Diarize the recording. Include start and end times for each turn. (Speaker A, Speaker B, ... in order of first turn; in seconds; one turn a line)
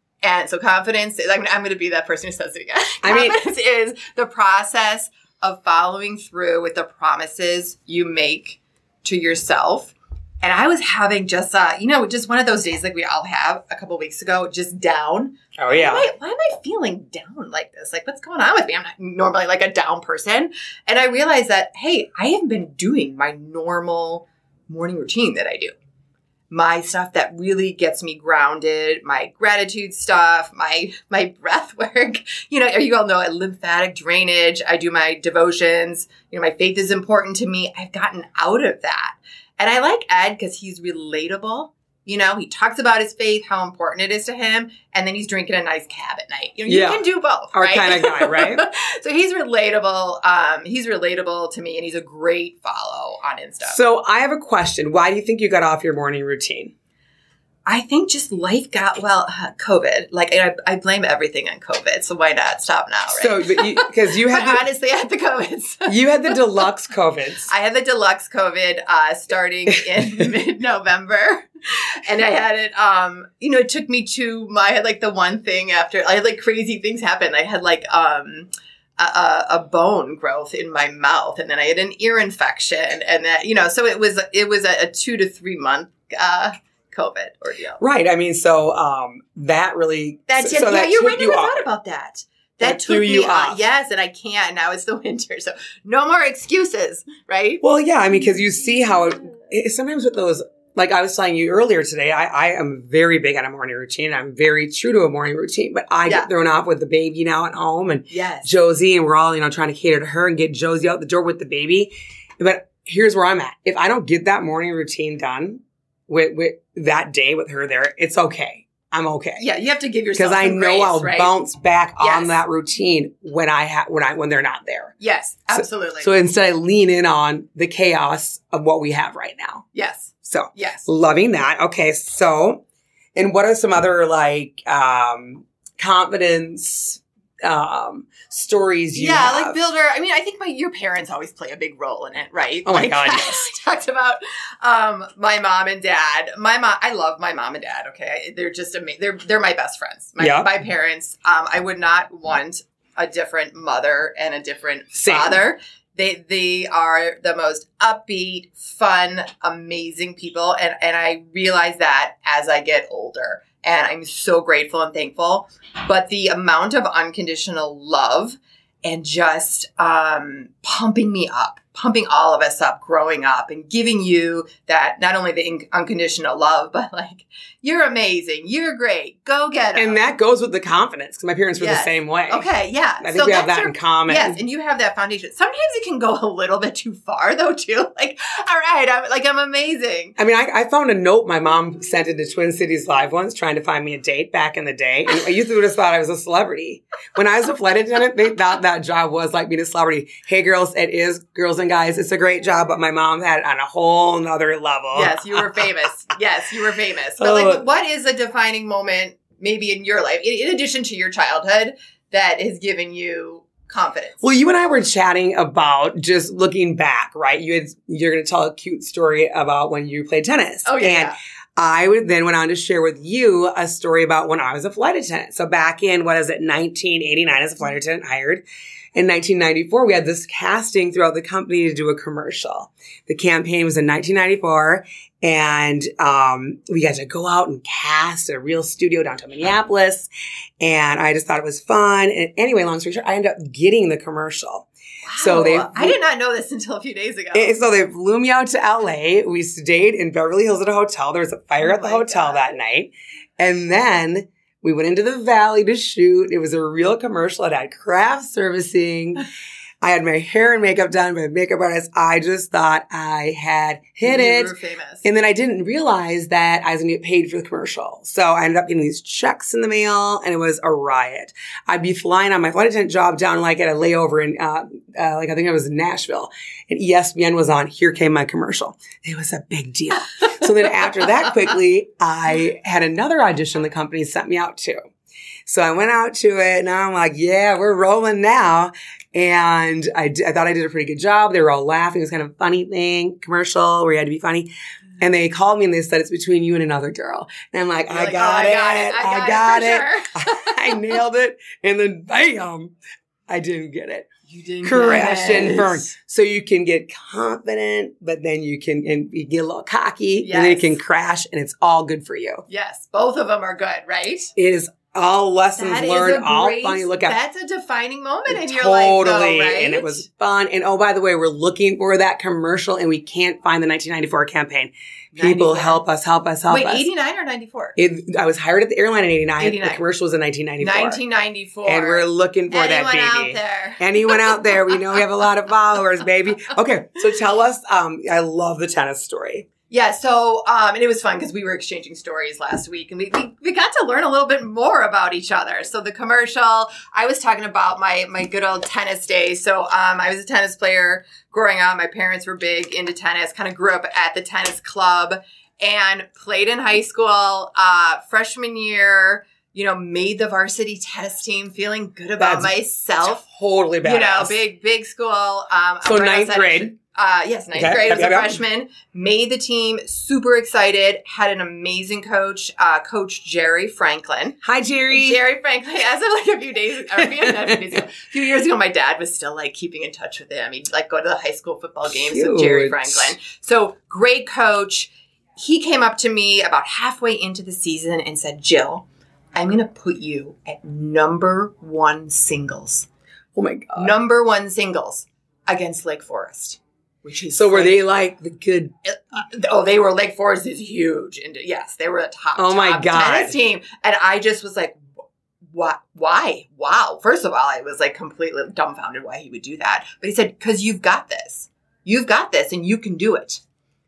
Speaker A: 0.2-25.7
Speaker B: 3.0-3.4
Speaker B: 15.6-16.1
Speaker A: 26.5-53.8
Speaker B: 46.7-48.6
Speaker B: 53.7-56.7
Speaker A: 57.6-66.4
Speaker B: 63.1-64.6
Speaker B: 65.9-67.5
Speaker A: 67.5-87.8
Speaker B: 87.8-91.6
Speaker A: 90.3-97.6
Speaker B: 92.6-93.6
Speaker B: 97.6-119.4
Speaker A: 108.1-108.5
Speaker A: 119.4-121.3
Speaker B: 120.2-124.9
Speaker A: 122.0-122.3
Speaker A: 125.0-126.1
Speaker B: 125.5-129.7
Speaker A: 129.7-130.8
Speaker B: 130.2-132.6
Speaker B: 133.1-139.6
Speaker A: 138.9-180.0
Speaker B: 142.7-143.5
Speaker B: 150.2-150.5
Speaker B: 154.9-155.4
Speaker B: 179.8-182.5
Speaker A: 181.6-190.2
Speaker B: 183.0-184.4
Speaker B: 190.2-205.7
Speaker A: 204.9-214.2
Speaker B: 207.2-207.6
Speaker B: 214.2-228.4
Speaker A: 220.6-221.2
Speaker B: 228.9-240.1
Speaker B: 240.6-244.7
Speaker A: 245.0-247.6
Speaker B: 245.2-246.0
Speaker B: 247.3-259.2
Speaker A: 251.6-252.6
Speaker B: 259.8-264.5
Speaker A: 264.0-265.1
Speaker B: 265.0-284.8
Speaker B: 285.4-302.7
Speaker A: 297.9-300.8
Speaker B: 303.3-304.1
Speaker A: 304.3-305.9
Speaker B: 304.6-312.4
Speaker A: 310.2-310.8
Speaker A: 312.5-314.3
Speaker B: 314.4-317.2
Speaker A: 315.6-320.0
Speaker B: 318.3-326.9
Speaker A: 325.1-325.8
Speaker A: 326.5-327.8
Speaker B: 327.8-331.0
Speaker A: 329.4-329.8
Speaker A: 330.6-334.7
Speaker B: 331.6-339.5
Speaker A: 339.7-363.2
Speaker B: 362.2-362.5
Speaker B: 363.0-364.4
Speaker A: 363.8-374.4
Speaker B: 365.8-366.7
Speaker B: 367.5-368.4
Speaker B: 374.4-375.2
Speaker A: 374.9-392.9
Speaker B: 377.0-377.8
Speaker B: 381.9-383.1
Speaker B: 393.3-393.9
Speaker A: 393.8-397.8
Speaker B: 397.3-398.7
Speaker A: 398.8-404.8
Speaker B: 402.4-403.3
Speaker A: 405.5-413.4